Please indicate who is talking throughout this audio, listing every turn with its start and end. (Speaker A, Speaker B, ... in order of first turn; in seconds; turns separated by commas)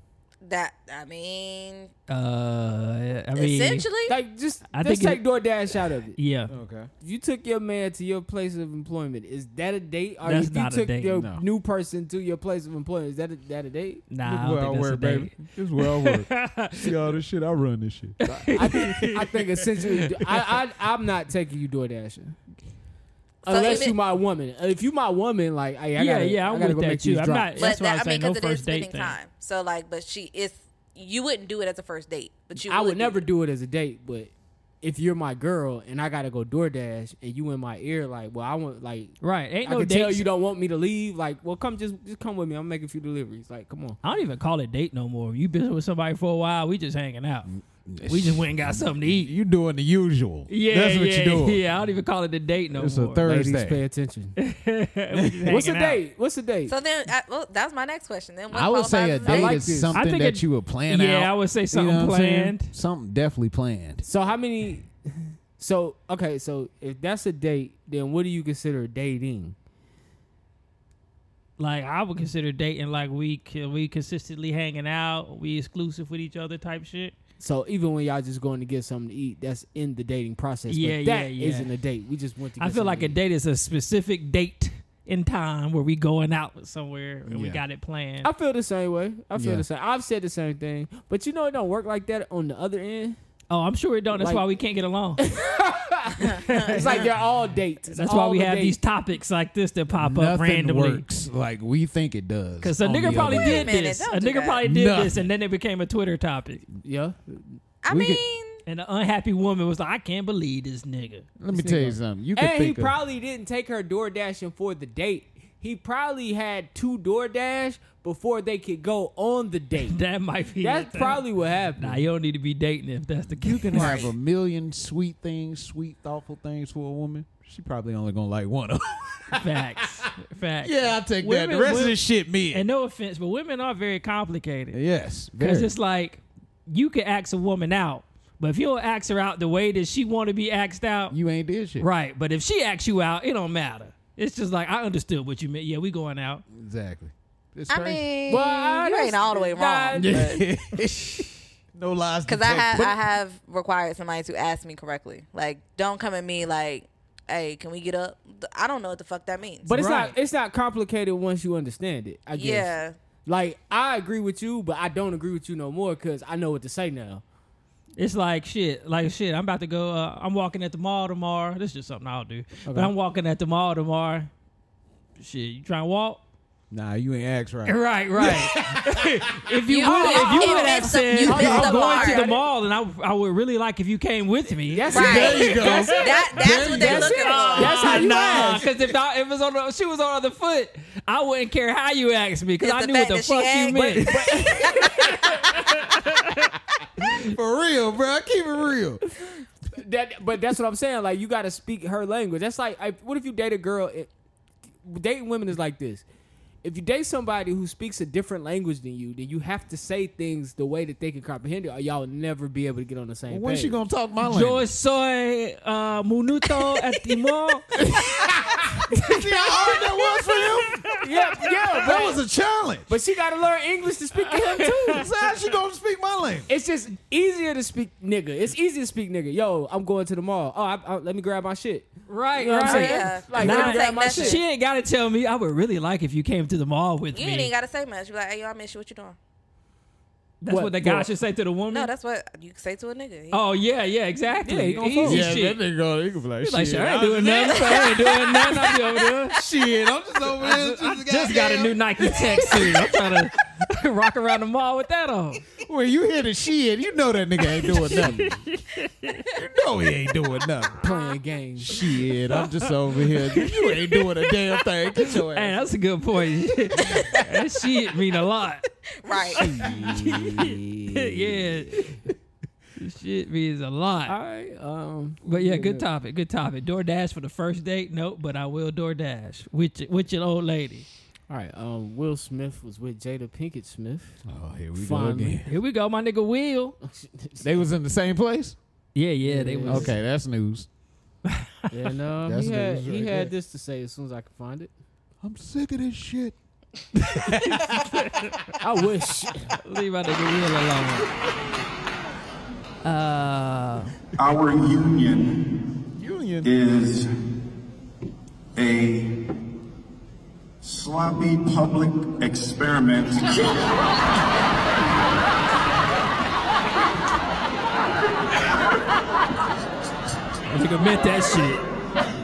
Speaker A: 0.4-1.9, Speaker B: 2.1-3.9, Speaker A: 3.4-4.1, Speaker C: 4.1-6.2, Speaker B: 4.7-5.2, Speaker B: 6.2-6.5, Speaker D: 6.5-6.9, Speaker C: 7.0-14.0, Speaker B: 10.2-11.2, Speaker D: 11.1-11.4, Speaker B: 14.1-17.0, Speaker D: 14.2-18.3, Speaker B: 18.3-19.4, Speaker C: 18.5-22.4, Speaker C: 23.4-27.6, Speaker A: 23.4-23.9, Speaker B: 25.9-29.2, Speaker A: 27.6-33.2, Speaker C: 32.5-34.3, Speaker C: 34.8-44.0, Speaker B: 39.2-40.3, Speaker B: 44.0-47.5, Speaker D: 47.5-51.7, Speaker B: 48.1-49.3, Speaker B: 50.5-53.2, Speaker D: 52.7-53.8, Speaker C: 53.2-54.3, Speaker B: 54.4-56.0, Speaker D: 55.1-55.5, Speaker C: 55.5-56.7, Speaker A: 56.7-59.7, Speaker D: 58.5-64.0, Speaker C: 59.2-60.0, Speaker B: 59.9-62.7, Speaker C: 64.0-64.9, Speaker C: 65.6-69.5, Speaker B: 71.6-77.1, Speaker C: 77.4-83.2, Speaker B: 80.7-81.7, Speaker B: 82.6-88.3, Speaker D: 87.2-87.6, Speaker C: 88.2-93.2, Speaker D: 89.3-89.6, Speaker B: 93.5-95.2, Speaker C: 94.1-94.4, Speaker C: 95.2-98.8, Speaker A: 96.2-97.1, Speaker B: 96.5-97.1, Speaker B: 97.9-101.0, Speaker D: 99.9-103.7, Speaker B: 102.6-106.6, Speaker A: 103.3-104.6, Speaker D: 104.6-105.3, Speaker C: 106.8-107.4, Speaker A: 107.8-108.6, Speaker D: 107.9-108.2, Speaker B: 108.7-111.2, Speaker D: 111.4-112.9, Speaker C: 111.5-120.0, Speaker B: 119.9-121.2, Speaker C: 120.6-122.0, Speaker B: 121.8-124.1, Speaker D: 123.4-129.5, Speaker B: 129.3-132.0, Speaker D: 130.6-132.6, Speaker B: 132.5-134.8, Speaker D: 134.7-135.7, Speaker B: 135.4-141.2, Speaker D: 141.1-141.9, Speaker B: 141.8-146.4, Speaker D: 146.5-148.1, Speaker A: 147.7-150.4, Speaker C: 148.3-150.4, Speaker D: 149.9-153.0, Speaker A: 152.3-159.7, Speaker C: 159.6-162.7, Speaker B: 159.7-160.1, Speaker A: 162.3-162.9, Speaker C: 163.2-167.2, Speaker B: 168.0-174.3, Speaker C: 172.7-172.9, Speaker B: 175.2-176.2, Speaker D: 176.7-179.0, Speaker B: 177.7-196.5, Speaker C: 179.5-182.4, Speaker A: 179.7-182.3, Speaker C: 184.7-186.0, Speaker D: 184.9-187.8, Speaker A: 184.9-188.2, Speaker C: 186.7-188.7, Speaker A: 192.6-195.4, Speaker C: 193.7-194.9, Speaker D: 197.0-199.0, Speaker C: 199.7-204.1, Speaker C: 204.8-206.0, Speaker C: 206.6-213.8, Speaker D: 213.3-214.7, Speaker B: 214.2-217.6, Speaker D: 217.8-220.9, Speaker C: 221.0-222.2, Speaker D: 221.7-222.9, Speaker C: 222.9-225.0, Speaker B: 224.4-224.9, Speaker D: 224.8-226.5, Speaker C: 226.5-234.4, Speaker B: 232.1-237.5, Speaker A: 232.6-234.4, Speaker A: 237.1-239.2, Speaker B: 240.4-241.9, Speaker C: 240.5-241.1, Speaker A: 241.7-243.4, Speaker B: 243.3-245.6, Speaker C: 244.4-245.3, Speaker D: 245.0-248.1, Speaker B: 246.4-249.3, Speaker A: 247.5-248.5, Speaker D: 249.3-252.9, Speaker B: 250.4-255.4, Speaker D: 255.6-258.4, Speaker B: 257.6-259.3, Speaker D: 259.3-260.8, Speaker C: 260.8-261.8, Speaker D: 261.6-265.6, Speaker B: 262.3-268.6, Speaker A: 269.0-269.4, Speaker B: 269.4-271.9, Speaker C: 269.4-270.4, Speaker D: 269.4-271.5, Speaker B: 272.8-274.1, Speaker C: 274.1-275.8, Speaker B: 275.2-280.9, Speaker C: 281.3-284.2, Speaker D: 284.2-285.5, Speaker C: 284.8-285.4, Speaker B: 285.4-286.8, Speaker C: 286.9-287.5, Speaker D: 287.4-288.6, Speaker B: 288.9-289.9, Speaker C: 289.2-289.9, Speaker D: 289.7-290.7, Speaker C: 291.7-294.7, Speaker D: 292.2-293.3, Speaker D: 295.2-296.3, Speaker D: 296.9-297.8, Speaker B: 297.3-298.4, Speaker C: 298.6-299.5, Speaker B: 299.6-301.1, Speaker B: 302.8-303.9, Speaker E: 304.2-305.4, Speaker D: 306.0-306.5, Speaker E: 306.4-307.1, Speaker E: 308.6-309.1, Speaker E: 310.6-313.7, Speaker B: 320.5-321.6